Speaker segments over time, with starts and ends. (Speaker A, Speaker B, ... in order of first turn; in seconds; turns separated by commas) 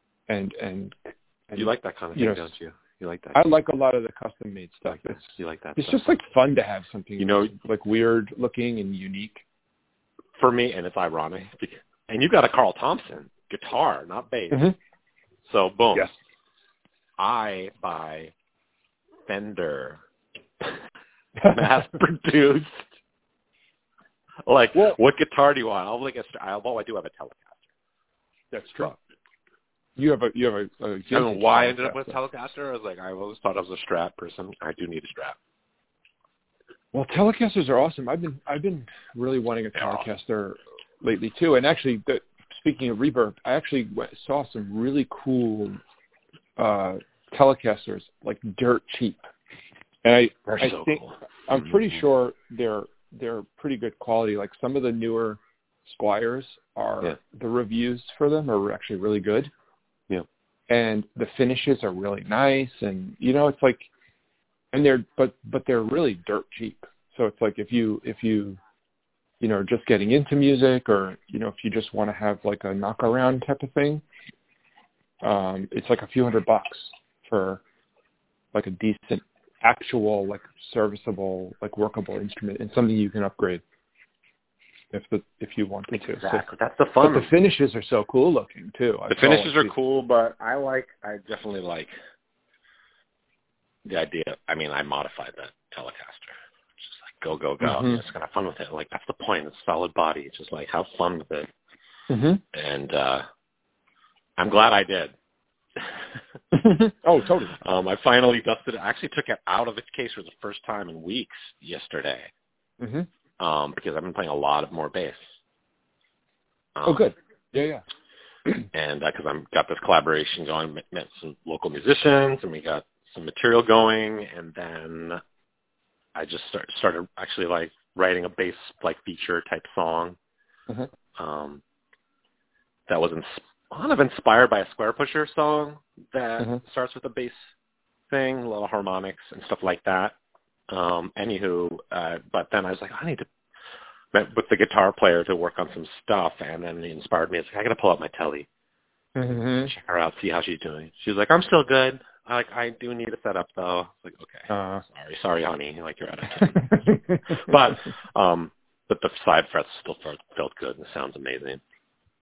Speaker A: 0.3-2.5, Speaker B: 1.6-3.4, Speaker A: 3.3-9.4, Speaker B: 4.9-6.0, Speaker B: 7.2-7.5, Speaker B: 10.3-14.6, Speaker A: 14.5-14.8, Speaker B: 15.4-16.1, Speaker B: 17.2-18.3, Speaker B: 19.3-20.0, Speaker B: 21.4-22.9, Speaker B: 24.4-27.7, Speaker A: 28.5-28.9, Speaker A: 29.9-32.2, Speaker B: 31.1-35.4, Speaker A: 36.9-45.8, Speaker B: 39.8-40.0, Speaker A: 46.6-49.2, Speaker A: 50.0-59.5, Speaker B: 50.5-52.0, Speaker A: 60.7-63.9, Speaker A: 64.7-68.6, Speaker A: 69.4-74.0, Speaker A: 75.2-77.6, Speaker A: 78.5-83.6, Speaker A: 84.9-86.4, Speaker B: 85.9-87.3, Speaker A: 87.0-89.7, Speaker B: 89.1-91.9, Speaker B: 93.8-101.5, Speaker A: 97.6-98.0, Speaker A: 102.1-102.4, Speaker B: 102.5-103.2, Speaker B: 104.4-105.1, Speaker B: 105.7-106.2, Speaker A: 106.5-107.5, Speaker B: 107.5-112.3, Speaker A: 112.8-113.1, Speaker B: 113.4-115.4, Speaker B: 116.7-117.1, Speaker A: 116.8-117.8, Speaker B: 118.7-125.2, Speaker B: 126.1-130.2, Speaker B: 131.2-131.6, Speaker B: 132.9-137.4, Speaker B: 138.1-140.1, Speaker B: 140.7-143.3, Speaker B: 144.1-148.5, Speaker A: 149.1-149.7, Speaker B: 149.7-161.6, Speaker A: 154.5-154.8, Speaker A: 156.6-157.2